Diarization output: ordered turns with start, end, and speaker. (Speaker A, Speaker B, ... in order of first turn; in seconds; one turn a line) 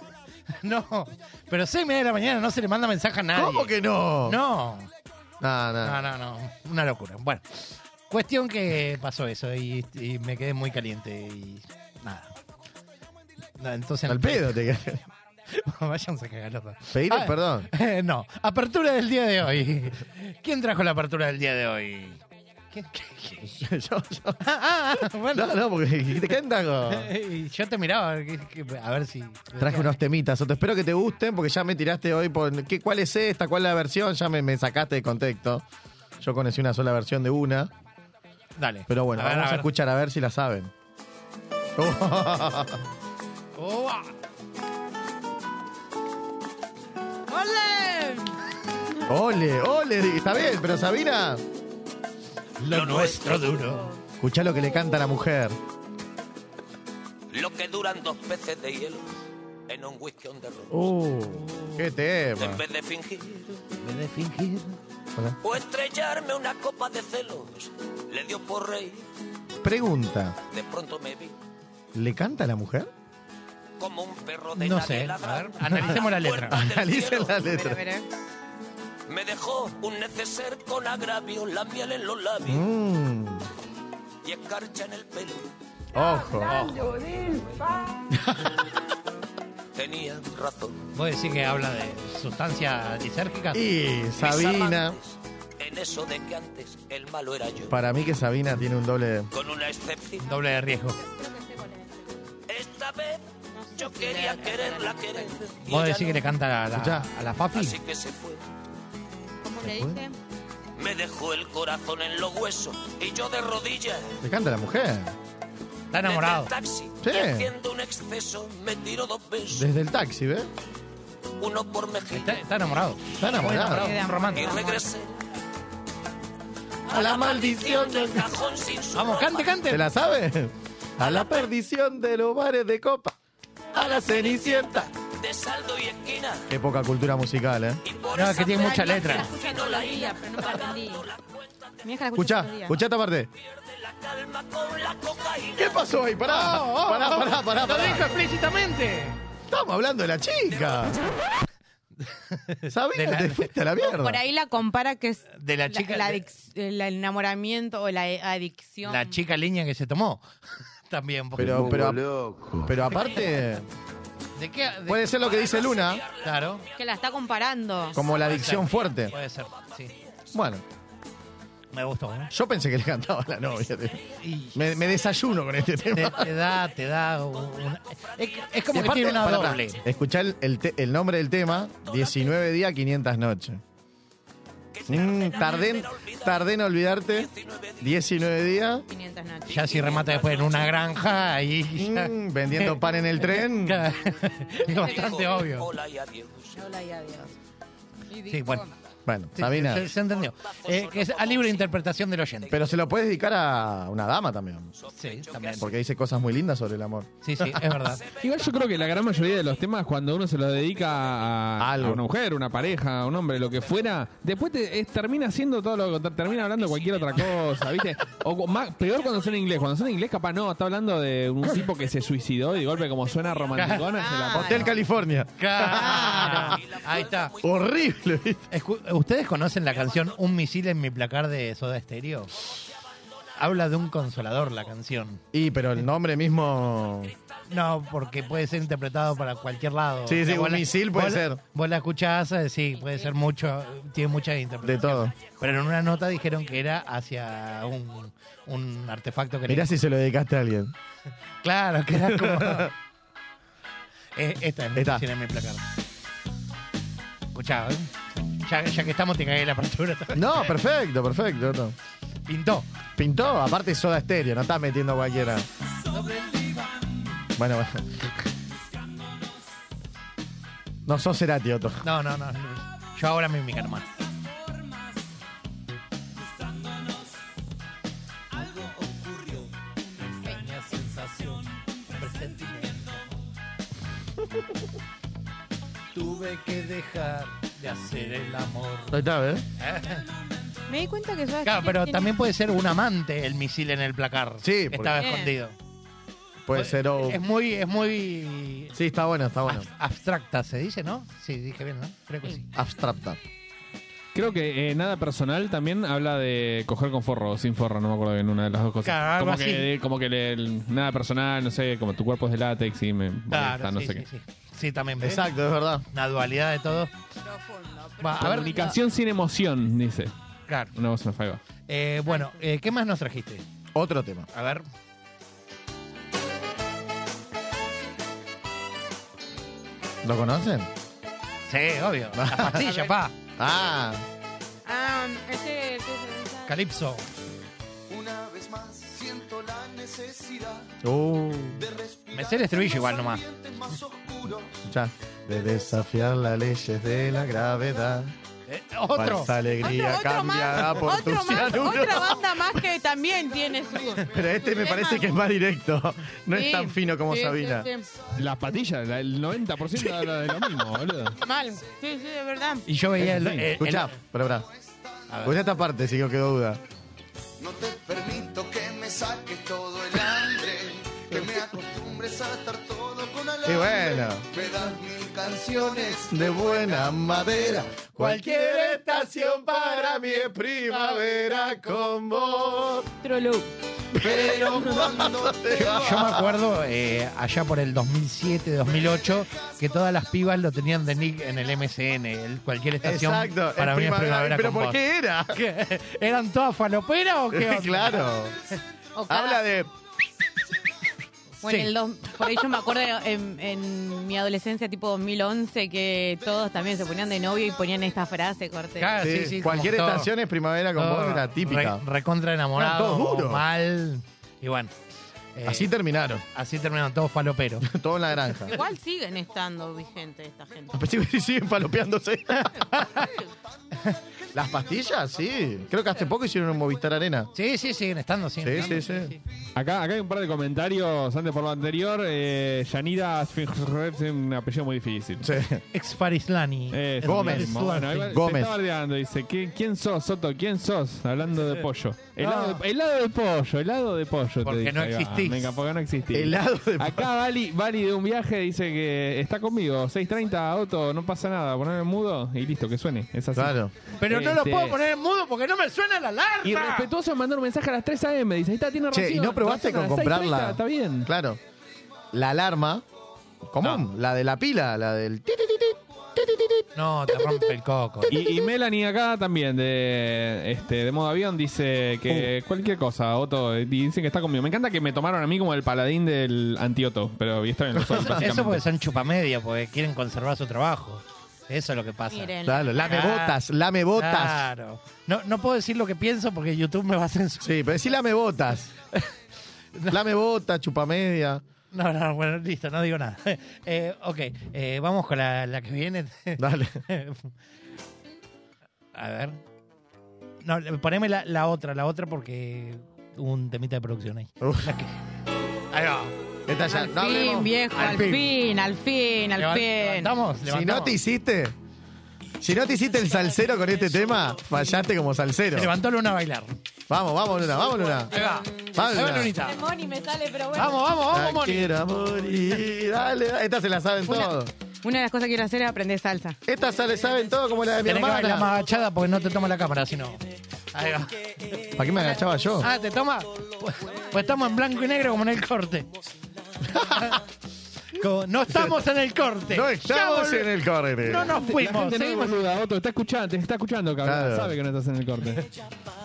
Speaker A: 0.6-3.7
Speaker B: 3.4-4.4
Speaker A: 4.2-4.9
Speaker B: 5.4-6.0
Speaker A: 5.8-12.3
Speaker A: 13.6-14.6
Speaker B: 14.1-15.1
Speaker A: 15.5-22.2
Speaker B: 16.9-17.7
Speaker A: 22.7-23.4
Speaker B: 23.4-24.4
Speaker A: 24.4-25.6
Speaker B: 25.3-27.1
Speaker A: 26.9-30.0
Speaker B: 29.6-35.6
Speaker B: 36.2-37.7
Speaker A: 38.6-39.7
Speaker B: 38.9-40.7
Speaker B: 41.8-42.8
Speaker A: 43.6-44.1
Speaker C: 47.3-48.4
Speaker B: 49.1-51.4
Speaker A: 52.6-53.9
Speaker D: 52.7-53.7
Speaker B: 54.2-55.6
Speaker D: 57.3-59.1
Speaker D: 59.7-60.9
Speaker B: 60.7-62.6
Speaker D: 62.4-63.6
Speaker A: 63.8-64.8
Speaker D: 65.4-69.1
Speaker B: 69.6-70.4
Speaker D: 70.5-71.3
Speaker B: 72.0-72.9
Speaker D: 73.8-77.3
Speaker A: 74.6-76.6
Speaker B: 76.5-77.8
Speaker C: 77.4-78.1
Speaker D: 79.1-82.6
Speaker B: 82.5-83.5
Speaker D: 84.2-85.5
Speaker B: 85.9-86.8
Speaker A: 86.4-87.8
Speaker B: 88.1-88.5
Speaker D: 89.8-90.8
Speaker A: 91.0-93.6
Speaker B: 93.5-95.0
Speaker D: 94.2-97.8
Speaker B: 97.7-99.3
Speaker D: 99.3-100.3
Speaker A: 100.2-101.0
Speaker C: 101.0-102.1
Speaker D: 102.5-103.2
Speaker C: 103.5-105.4
Speaker D: 103.7-106.2
Speaker A: 105.7-107.8
Speaker B: 106.8-107.0
Speaker D: 107.5-108.4
Speaker C: 109.4-110.2
Speaker B: 109.6-110.0
Speaker D: 110.8-114.1
Speaker B: 114.2-115.1
Speaker A: 115.9-116.5
Speaker D: 116.0-119.7
Speaker B: 117.0-117.5
Speaker B: 119.5-120.5
Speaker D: 121.4-122.4
Speaker A: 122.1-124.6
Speaker B: 123.2-123.9
Speaker C: 123.4-124.8
Speaker D: 124.3-125.1
Speaker B: 126.9-128.3
Speaker D: 126.9-129.5
Speaker A: 128.9-129.8
Speaker B: 129.7-133.2
Speaker D: 131.0-131.5
Speaker B: 133.7-134.9
Speaker D: 133.8-136.5
Speaker B: 136.5-137.8
Speaker D: 137.8-141.7
Speaker A: 138.1-139.3
Speaker C: 138.5-141.0
Speaker C: 141.8-142.8
Speaker B: 142.2-143.3
Speaker D: 143.4-145.9
Speaker B: 145.6-148.2
Speaker A: 146.3-149.2
Speaker B: 149.5-151.0
Speaker A: 152.1-153.5
Speaker B: 152.7-154.2
Speaker C: 153.8-159.2
Speaker A: 155.4-156.3
Speaker A: 158.8-160.2
Speaker A: 160.9-161.7
Speaker B: 161.4-162.0
Speaker E: 161.8-162.5
Speaker B: 162.6-163.7
Speaker A: 164.4-165.1
Speaker B: 164.9-166.0
Speaker D: 165.2-166.3
Speaker A: 166.2-166.7
Speaker C: 166.8-168.0
Speaker B: 167.9-169.1
Speaker A: 168.2-169.9
Speaker B: 170.3-170.6
Speaker A: 171.7-172.3
Speaker B: 172.3-174.0
Speaker A: 174.2-174.6
Speaker B: 174.5-176.3
Speaker A: 175.9-179.8
Speaker D: 178.2-178.9
Speaker B: 178.7-183.6
Speaker D: 181.8-182.4
Speaker D: 184.8-186.4
Speaker B: 184.9-187.3
Speaker D: 187.2-187.9
Speaker B: 187.8-188.8
Speaker C: 188.9-189.9
Speaker A: 189.5-195.7
Speaker D: 189.7-190.7
Speaker B: 191.8-193.8
Speaker C: 194.7-195.4
Speaker D: 194.7-196.6
Speaker C: 196.6-197.3
Speaker C: 198.1-198.7
Speaker A: 198.3-198.7
Speaker B: 199.1-199.9
Speaker A: 199.3-202.6
Speaker D: 200.0-201.8
Speaker D: 202.4-202.8
Speaker B: 202.5-204.7
Speaker D: 204.8-205.7
Speaker A: 204.9-205.7
Speaker B: 205.6-207.7
Speaker A: 207.2-208.0
Speaker D: 207.9-209.4
Speaker F: 208.2-224.6
Speaker B: 211.6-212.0
Speaker A: 223.6-223.8
Speaker C: 223.9-224.8
Speaker B: 224.3-226.6
Speaker A: 225.4-227.3
Speaker C: 225.7-226.2
Speaker D: 226.2-227.5
Speaker B: 227.4-228.4
Speaker A: 228.5-232.3
Speaker A: 233.4-235.2
Speaker B: 235.3-237.1
Speaker A: 237.5-249.7
Speaker B: 240.1-241.4
Speaker B: 244.6-245.2
Speaker B: 249.5-250.7
Speaker A: 251.4-252.7
Speaker B: 252.1-252.7
Speaker A: 254.2-255.6
Speaker B: 254.8-255.0
Speaker A: 257.3-257.9
Speaker A: 258.4-260.6
Speaker B: 260.1-261.8
Speaker A: 262.3-262.7
Speaker B: 263.0-265.5
Speaker A: 265.9-266.8
Speaker B: 267.4-268.1
Speaker B: 270.9-271.8
Speaker A: 271.8-273.9
Speaker A: 278.4-279.5
Speaker A: 280.2-283.0
Speaker A: 285.9-289.0
Speaker B: 288.9-289.5
Speaker A: 289.6-290.1
Speaker C: 290.7-292.1
Speaker A: 291.4-295.6
Speaker B: 294.4-295.0
Speaker C: 294.9-295.3
Speaker B: 296.5-297.2
Speaker A: 296.5-298.7
Speaker B: 298.8-299.7
Speaker A: 299.5-302.5
Speaker B: 302.5-303.2
Speaker F: 304.1-314.1
Speaker A: 308.8-309.7
Speaker A: 313.3-315.3
Speaker B: 315.0-315.9
Speaker A: 315.9-316.9
Speaker C: 317.2-318.8
Speaker A: 318.0-318.6
Speaker F: 318.2-320.1
Speaker F: 320.8-321.4
Speaker A: 321.7-323.4
Speaker C: 322.1-322.4
Speaker B: 323.7-324.3
Speaker A: 324.3-324.6
Speaker B: 330.0-330.7
Speaker A: 331.5-333.1
Speaker B: 332.2-332.7
Speaker B: 333.4-334.0
Speaker C: 334.6-336.6
Speaker A: 336.5-337.0
Speaker E: 337.9-340.8
Speaker B: 340.8-341.6
Speaker E: 341.5-344.6
Speaker A: 342.1-343.2
Speaker B: 344.7-348.1
Speaker A: 348.5-349.3
Speaker B: 348.9-352.6
Speaker C: 349.6-355.2
Speaker B: 354.1-357.7
Speaker C: 356.3-357.9
Speaker F: 358.2-361.2
Speaker C: 361.2-362.6
Speaker A: 362.7-363.9
Speaker F: 363.1-363.4
Speaker B: 363.6-364.5
Speaker E: 364.4-365.0
Speaker A: 365.1-365.4
Speaker B: 365.2-366.6
Speaker E: 367.4-377.7
Speaker B: 373.4-374.2
Speaker B: 376.1-382.9
Speaker A: 378.0-380.0
Speaker A: 380.7-381.0
Speaker C: 383.0-383.5
Speaker B: 383.9-386.3
Speaker E: 384.0-386.1
Speaker A: 385.5-394.8
Speaker E: 388.8-389.4
Speaker B: 392.8-395.4
Speaker A: 395.3-398.1
Speaker B: 397.3-398.4
Speaker C: 398.9-399.4
Speaker B: 399.1-399.7
Speaker A: 401.4-401.7
Speaker C: 401.4-409.0
Speaker A: 408.8-410.1
Speaker B: 409.0-411.8
Speaker A: 410.8-414.7
Speaker B: 412.6-413.4
Speaker A: 415.4-415.7
Speaker B: 415.5-416.2
Speaker A: 416.3-417.7
Speaker B: 417.6-418.6
Speaker C: 418.4-420.8
Speaker B: 420.7-422.5
Speaker A: 422.3-423.1
Speaker C: 422.8-423.2
Speaker B: 424.3-427.3
Speaker A: 427.3-429.2
Speaker B: 428.4-429.1
Speaker F: 429.6-435.3
Speaker B: 435.2-435.6
Speaker A: 435.7-438.1
Speaker F: 436.7-453.5
Speaker B: 437.0-437.5
Speaker B: 438.1-438.5
Speaker A: 442.2-442.6
Speaker A: 444.4-445.5
Speaker B: 446.1-447.1
Speaker B: 453.4-453.7
Speaker A: 454.0-456.9
Speaker F: 454.1-454.8
Speaker F: 456.4-461.1
Speaker B: 458.9-461.4
Speaker B: 462.1-462.8
Speaker B: 463.5-467.4
Speaker A: 466.8-468.1
Speaker F: 468.1-478.6
Speaker B: 477.8-478.2
Speaker A: 477.9-483.4
Speaker C: 482.1-482.8
Speaker B: 482.4-484.5
Speaker A: 483.9-487.5
Speaker B: 487.4-488.7
Speaker B: 489.9-491.4
Speaker A: 491.7-497.3
Speaker B: 496.4-496.8
Speaker A: 498.9-499.4
Speaker A: 500.4-504.9
Speaker B: 504.4-504.7
Speaker A: 505.7-506.1
Speaker B: 506.5-507.5
Speaker C: 506.7-510.1
Speaker A: 507.7-508.3
Speaker A: 509.4-511.0
Speaker B: 510.5-511.6
Speaker B: 512.4-515.7
Speaker A: 515.6-516.5
Speaker B: 516.9-518.1
Speaker A: 518.1-519.6
Speaker C: 518.1-520.9
Speaker B: 518.7-519.3
Speaker A: 520.5-521.7
Speaker B: 521.1-524.5
Speaker C: 524.8-526.4
Speaker B: 526.5-528.5
Speaker A: 527.8-530.2
Speaker A: 530.7-531.2
Speaker B: 531.7-532.7
Speaker A: 532.6-535.9
Speaker B: 536.7-537.1
Speaker A: 536.8-537.2
Speaker A: 537.9-540.5
Speaker B: 539.5-541.4
Speaker A: 541.0-542.4
Speaker F: 541.4-545.5
Speaker B: 544.0-544.5